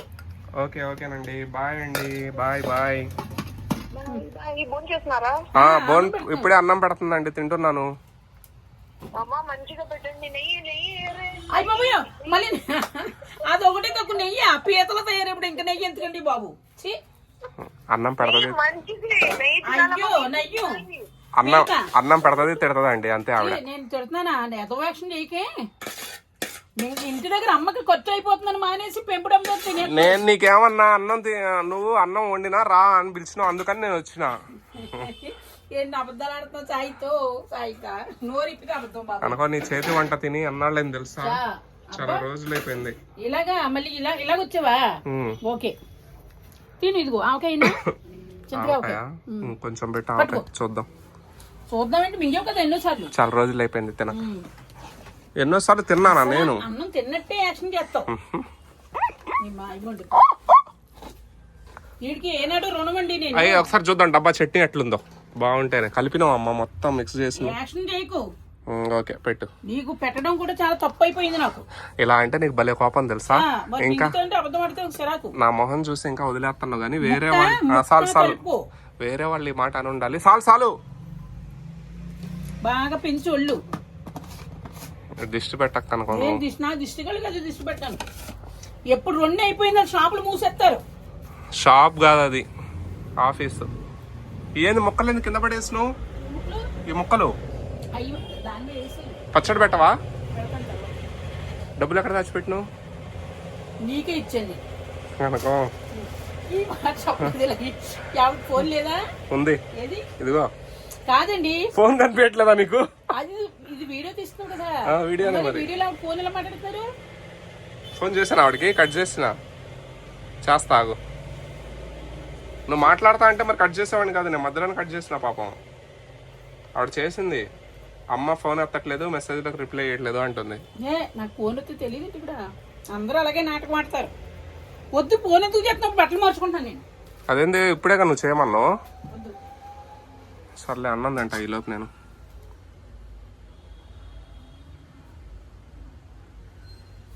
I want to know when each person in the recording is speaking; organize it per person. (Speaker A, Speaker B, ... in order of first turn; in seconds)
Speaker A: 0.6-3.0, 5.6-7.8, 17.9-18.6, 21.4-23.6, 29.8-35.1, 39.2-41.4, 41.9-43.0, 45.1-45.4, 47.7-47.9, 48.5-50.9, 53.1-54.2, 55.4-56.6, 58.1-58.5, 63.3-67.5, 68.7-69.5, 72.0-74.1, 75.4-78.4, 79.0-80.7, 85.2-86.4, 91.6-92.4, 93.2-93.7, 94.6-95.9, 96.9-97.3, 99.3-99.9, 101.8-102.6, 105.2-105.7, 109.3-109.6, 110.2-110.5, 111.7-112.9, 114.9-115.7, 118.0-119.3, 120.4-121.0, 122.7-125.5, 126.8-127.4, 128.1-130.6, 137.3-138.7, 140.6-141.9
Speaker B: 3.9-5.4, 9.2-12.4, 18.2-21.1
Speaker C: 5.6-6.5, 11.5-17.0, 19.6-20.8, 21.4-21.9, 23.4-25.5, 26.8-30.2, 34.7-39.4, 41.2-42.2, 43.2-44.9, 45.4-45.8, 46.8-47.8, 48.5-49.5, 50.2-50.4, 51.7-53.1, 54.1-54.4, 56.0-58.1, 59.4-60.2, 62.0-63.7, 67.3-68.2, 69.7-71.6, 73.3-75.3, 77.0-78.6, 82.6-83.6, 86.1-88.0, 88.9-90.8, 96.2-96.7, 98.0-99.2, 100.3-101.0, 103.8-104.6, 105.9-109.0, 109.7-110.1, 111.1-111.7, 113.1-116.9, 130.8-132.4, 132.9-134.1, 134.9-136.8, 139.1-139.3